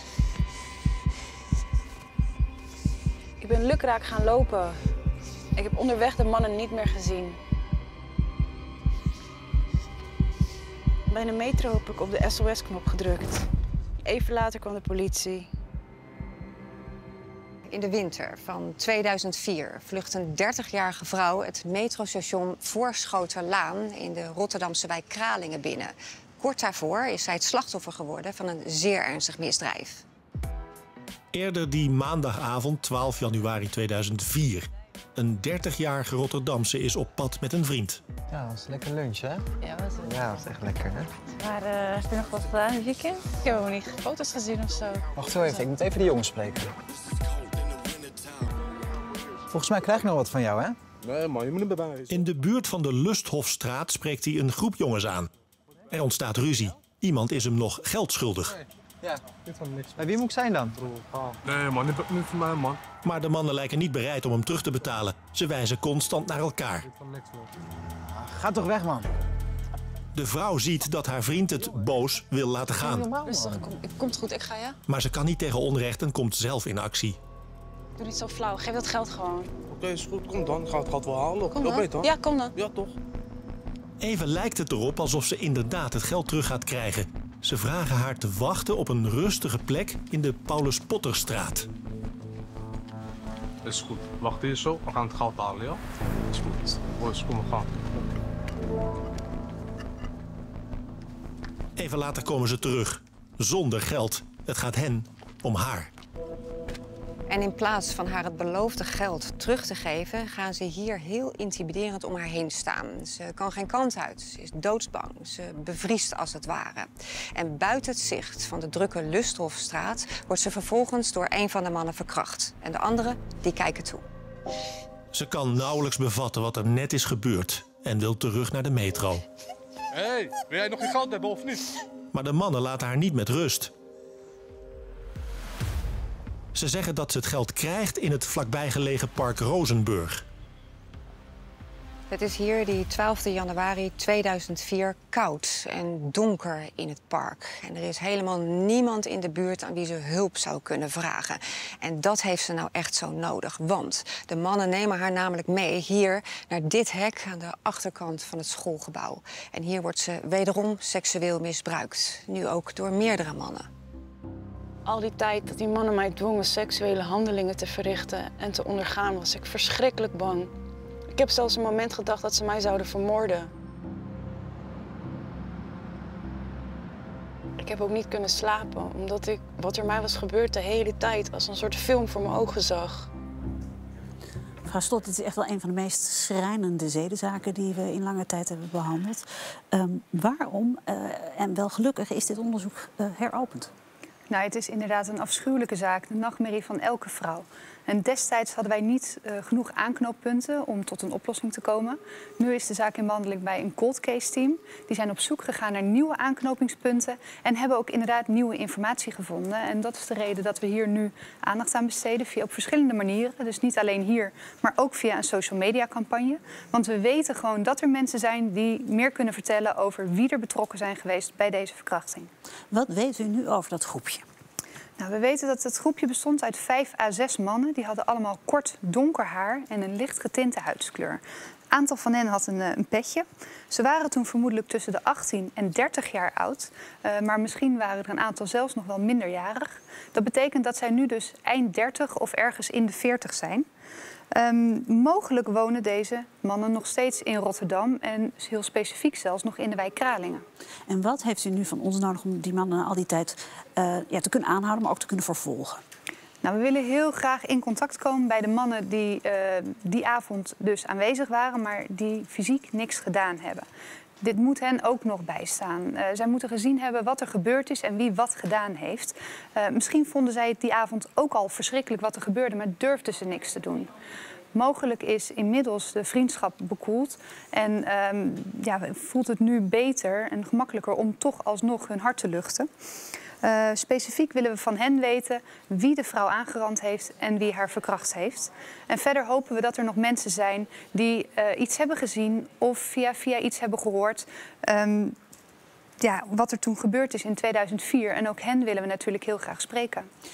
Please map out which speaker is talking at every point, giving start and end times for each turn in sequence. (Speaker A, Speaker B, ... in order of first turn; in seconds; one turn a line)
Speaker A: 3.4-4.8
Speaker A: 5.5-7.4
Speaker A: 11.1-13.5
Speaker A: 14.0-15.5
Speaker B: 17.7-30.0
Speaker C: 31.3-38.0
Speaker D: 38.3-39.5
Speaker D: 40.0-41.1
Speaker A: 41.4-45.1
Speaker D: 45.2-46.7
Speaker D: 49.5-50.8
Speaker E: 51.0-52.1
Speaker C: 52.1-55.3
Speaker C: 55.9-58.6
Speaker E: 59.4-60.1
Speaker D: 60.0-60.8
Speaker E: 60.8-62.8
Speaker C: 63.0-66.9
Speaker E: 66.9-67.5
Speaker D: 68.1-69.1
Speaker C: 70.2-73.1
Speaker D: 73.0-73.7
Speaker A: 73.2-74.8
Speaker C: 74.9-77.2
Speaker A: 78.0-79.5
Speaker E: 79.7-83.0
Speaker A: 81.5-82.5
Speaker C: 84.0-91.7
Speaker E: 93.7-98.1
Speaker C: 101.8-105.9
Speaker B: 107.3-124.0
Speaker C: 125.1-129.2
Speaker E: 129.9-131.7
Speaker C: 132.1-133.7
Speaker C: 136.5-140.2
Speaker B: 142.1-163.7
Speaker A: 164.9-170.5
Speaker A: 171.1-173.5
Speaker A: 177.6-183.1
Speaker F: 184.7-193.7
Speaker G: 194.3-222.3
Speaker F: 222.7-224.2
Speaker G: 225.0-243.7
Speaker G: 244.3-250.4
Speaker F: 250.9-255.8
Speaker G: 256.4-263.7
Speaker G: 264.2-273.9
Speaker G: 274.5-282.7
Speaker G: 283.4-295.1
Speaker G: 296.0-300.1